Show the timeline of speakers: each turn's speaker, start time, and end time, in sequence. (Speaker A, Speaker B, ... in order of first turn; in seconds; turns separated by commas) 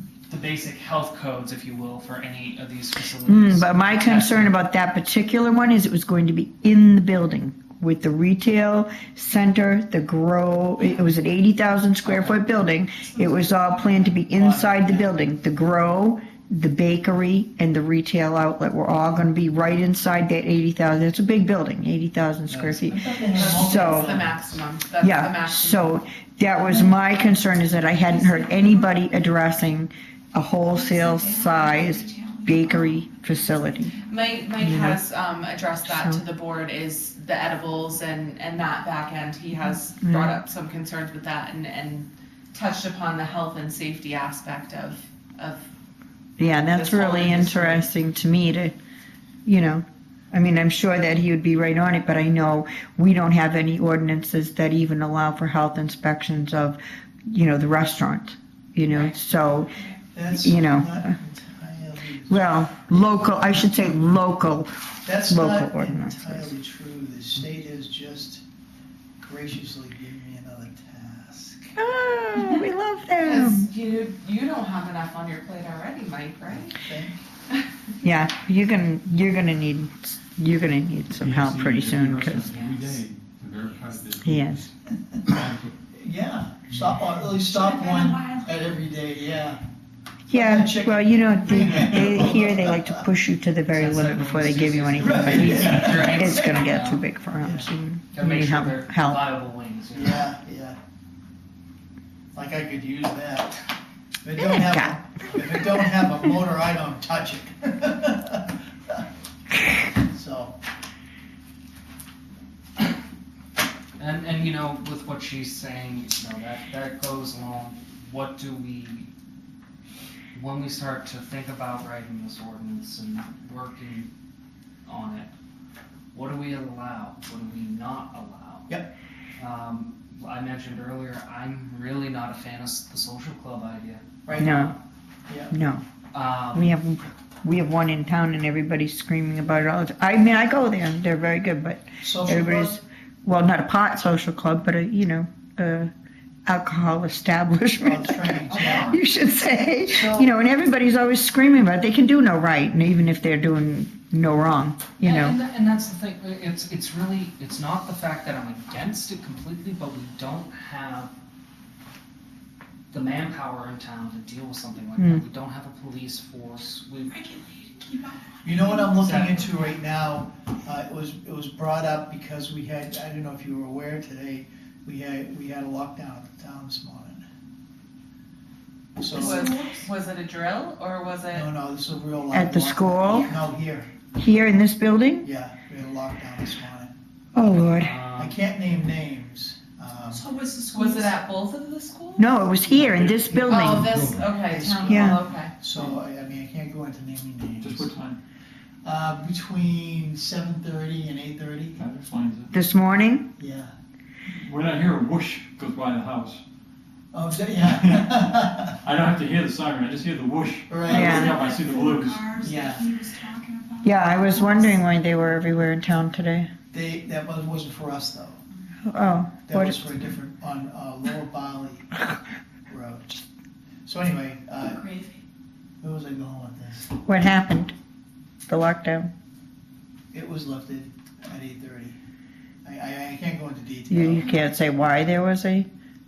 Speaker A: 0.3-4.5, Speaker B: 3.2-24.1, Speaker C: 14.1-15.2, Speaker C: 22.5-24.6, Speaker D: 23.3-25.9, Speaker B: 25.0-33.9, Speaker E: 28.0-28.9, Speaker E: 30.7-34.2, Speaker D: 34.1-45.7, Speaker B: 34.6-35.0, Speaker B: 35.9-36.2, Speaker B: 39.6-40.4, Speaker B: 46.4-48.8, Speaker D: 46.7-47.9, Speaker B: 49.5-59.8, Speaker D: 58.9-59.1, Speaker C: 60.1-63.6, Speaker B: 60.3-61.1, Speaker B: 62.3-64.7, Speaker C: 65.0-68.4, Speaker B: 65.2-66.5, Speaker C: 69.2-71.8, Speaker B: 71.8-73.7, Speaker D: 73.2-76.8, Speaker C: 76.5-77.2, Speaker B: 78.0-82.7, Speaker F: 81.2-84.7, Speaker A: 82.4-83.0, Speaker B: 84.2-84.7, Speaker C: 85.1-85.4, Speaker F: 85.3-85.7, Speaker C: 85.9-89.6, Speaker E: 87.4-88.5, Speaker B: 90.3-99.2, Speaker C: 90.3-93.0, Speaker A: 93.7-97.0, Speaker C: 95.0-96.8, Speaker C: 97.4-97.7, Speaker A: 98.1-100.3, Speaker C: 99.9-100.8, Speaker C: 102.3-103.6, Speaker C: 104.2-109.0, Speaker B: 104.4-106.3, Speaker C: 109.9-110.5, Speaker A: 114.0-119.1, Speaker A: 120.3-124.1, Speaker A: 124.8-125.3, Speaker A: 126.1-128.7, Speaker A: 129.4-134.6, Speaker C: 134.2-134.7, Speaker B: 134.4-134.7, Speaker C: 135.3-135.5, Speaker B: 135.5-135.8, Speaker A: 136.1-136.8, Speaker B: 136.5-145.9, Speaker C: 142.0-142.8, Speaker B: 146.5-155.4, Speaker C: 147.8-149.0, Speaker A: 148.5-149.0, Speaker C: 149.9-150.3, Speaker A: 155.0-161.1, Speaker A: 162.9-167.2, Speaker B: 165.0-165.2, Speaker E: 167.2-169.6, Speaker C: 168.4-177.2, Speaker A: 169.0-169.5, Speaker C: 179.0-179.5, Speaker D: 179.1-181.5, Speaker E: 179.2-179.9, Speaker C: 181.3-183.9, Speaker B: 182.3-183.3, Speaker B: 184.2-185.3, Speaker C: 185.2-186.9, Speaker B: 187.3-188.0, Speaker A: 187.8-188.4, Speaker C: 188.2-190.3, Speaker E: 190.1-191.2, Speaker D: 190.7-192.3, Speaker B: 192.2-194.0, Speaker D: 193.1-195.6, Speaker C: 194.3-197.9, Speaker B: 194.9-195.2, Speaker F: 197.6-198.2, Speaker C: 198.8-201.8, Speaker F: 201.8-202.5, Speaker B: 202.5-203.3, Speaker C: 203.4-203.7, Speaker F: 204.3-206.4, Speaker C: 207.1-208.8, Speaker F: 208.8-212.4, Speaker C: 210.7-211.3, Speaker B: 210.9-211.4, Speaker E: 211.2-214.8, Speaker C: 212.4-212.9, Speaker B: 213.8-216.5, Speaker C: 216.7-218.4, Speaker B: 218.9-220.0, Speaker C: 219.5-222.1, Speaker C: 222.7-223.2, Speaker C: 223.8-224.9, Speaker E: 224.6-225.2, Speaker C: 225.8-226.9, Speaker B: 227.1-227.7, Speaker B: 228.5-229.1, Speaker C: 230.1-232.0, Speaker C: 232.6-234.3, Speaker B: 233.9-235.7